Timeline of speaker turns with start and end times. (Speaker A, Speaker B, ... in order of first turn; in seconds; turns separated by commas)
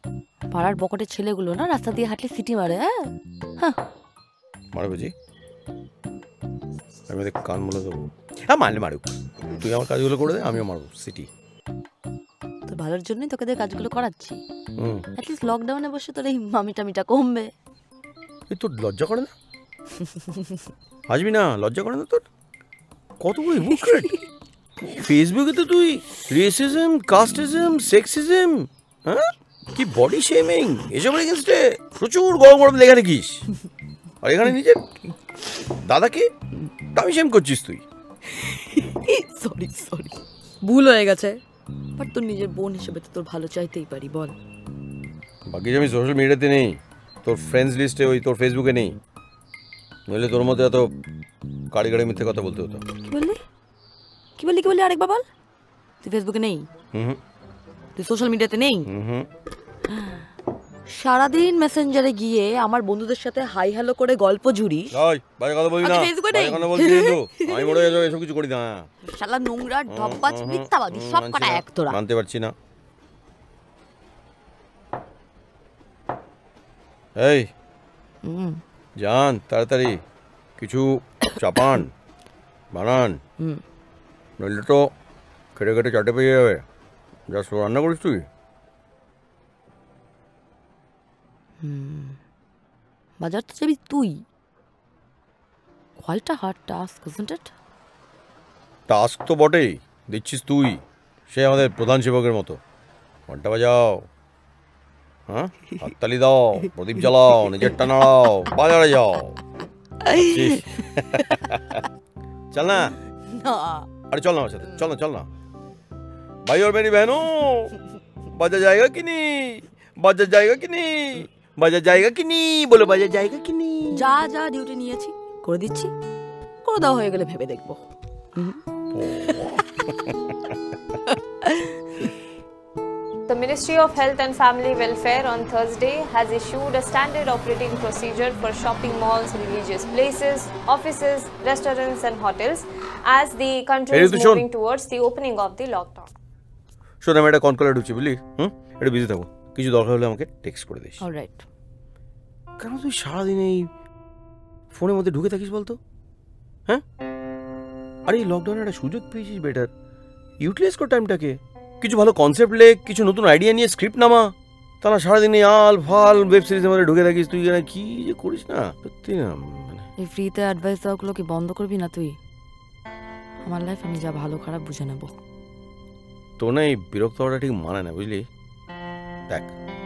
Speaker A: 0.5-2.9, Speaker B: 4.7-5.1, Speaker B: 7.1-11.3, Speaker A: 12.7-14.4, Speaker B: 14.8-15.1, Speaker A: 15.2-17.5, Speaker B: 18.5-19.3, Speaker B: 21.1-22.2, Speaker B: 23.2-24.1, Speaker B: 24.9-33.4, Speaker B: 34.2-34.9, Speaker B: 35.8-36.3, Speaker B: 36.9-37.8, Speaker A: 38.3-41.4, Speaker A: 42.0-44.3, Speaker B: 45.5-49.0, Speaker B: 50.1-50.9, Speaker B: 51.7-52.8, Speaker A: 53.0-53.4, Speaker A: 54.4-55.2, Speaker A: 56.0-56.7, Speaker B: 56.9-57.2, Speaker A: 58.0-58.9, Speaker B: 58.9-59.3, Speaker A: 59.9-60.3, Speaker A: 60.9-64.9, Speaker B: 64.9-68.9, Speaker A: 65.8-67.9, Speaker A: 69.0-72.0, Speaker B: 69.9-72.5, Speaker B: 77.2-77.5, Speaker A: 78.2-78.6, Speaker B: 79.0-80.0, Speaker B: 80.6-81.9, Speaker B: 82.7-83.2, Speaker B: 84.4-84.9, Speaker B: 85.6-86.7, Speaker B: 87.3-88.3, Speaker A: 91.6-92.2, Speaker A: 93.2-94.2, Speaker A: 96.0-97.5, Speaker B: 98.9-102.6, Speaker B: 103.3-104.0, Speaker B: 105.3-109.4, Speaker A: 110.1-110.6, Speaker B: 110.3-111.6, Speaker B: 112.5-112.9, Speaker A: 113.3-113.9, Speaker B: 114.0-115.3, Speaker B: 116.5-117.7, Speaker B: 118.3-124.1, Speaker A: 124.0-125.9, Speaker A: 126.7-127.8, Speaker B: 128.9-129.6, Speaker C: 133.3-146.1, Speaker B: 143.9-144.4, Speaker B: 147.0-151.0, Speaker A: 151.0-151.4, Speaker B: 152.6-153.7, Speaker B: 154.7-155.8, Speaker B: 158.1-159.7, Speaker B: 160.4-169.8, Speaker A: 170.0-172.1, Speaker A: 173.4-175.1, Speaker B: 176.4-178.2